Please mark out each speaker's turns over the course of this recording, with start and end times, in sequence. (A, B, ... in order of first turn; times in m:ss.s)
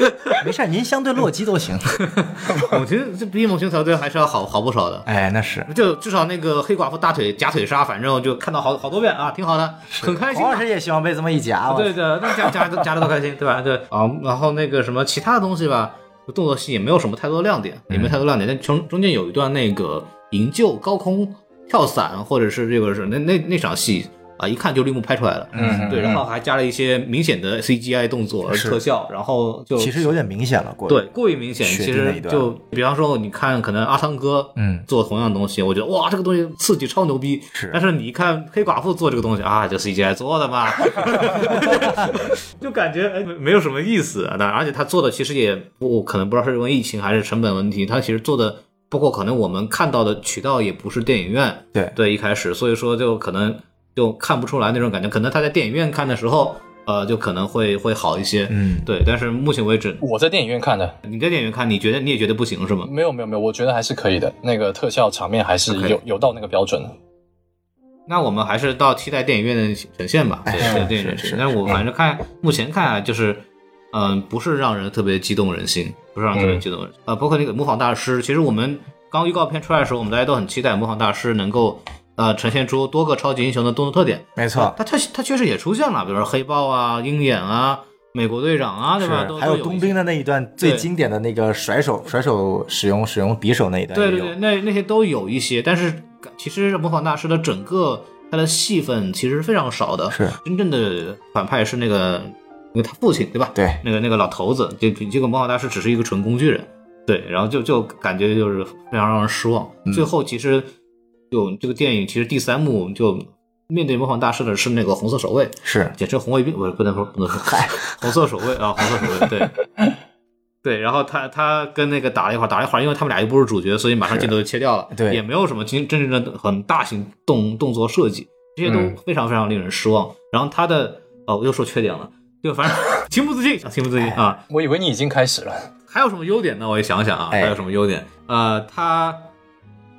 0:00.4-0:02.0 A
0:02.2-0:05.1 B
0:05.1-0:05.7 A
0:05.7-0:10.7 B
0:09.9-0:12.7 A
0:11.7-0:30.2 B
0:17.9-0:18.2 A
0:25.6-0:26.2 A
0:25.6-0:26.2 C
0:28.5-0:28.8 A
0:29.8-0:31.1 A
0:30.9-1:00.0 B
0:31.6-0:32.5 A
0:34.6-0:34.9 A
0:37.5-0:37.8 A
0:41.7-0:42.1 A
0:58.5-0:58.9 A
1:00.0-1:01.0 C
1:01.0-1:02.9 B
1:02.8-1:07.0 C
1:05.7-1:06.0 B
1:08.1-1:30.0 B
1:10.5-1:11.4 A
1:10.6-1:10.9 C
1:16.3-1:16.6 C
1:24.4-1:24.8 A
1:29.0-1:34.4 A
1:30.6-1:30.9 B
1:33.9-1:50.7 B
1:40.1-1:40.4 A
1:43.6-1:43.8 A
1:51.3-1:59.5 B
1:55.6-1:56.0 A
1:57.4-1:57.8 A
2:00.6-2:14.4 B
2:04.1-2:04.3 A
2:04.9-2:05.2 A
2:08.7-2:09.0 C
2:14.5-2:15.7 C
2:15.9-2:19.3 B
2:17.3-2:17.6 A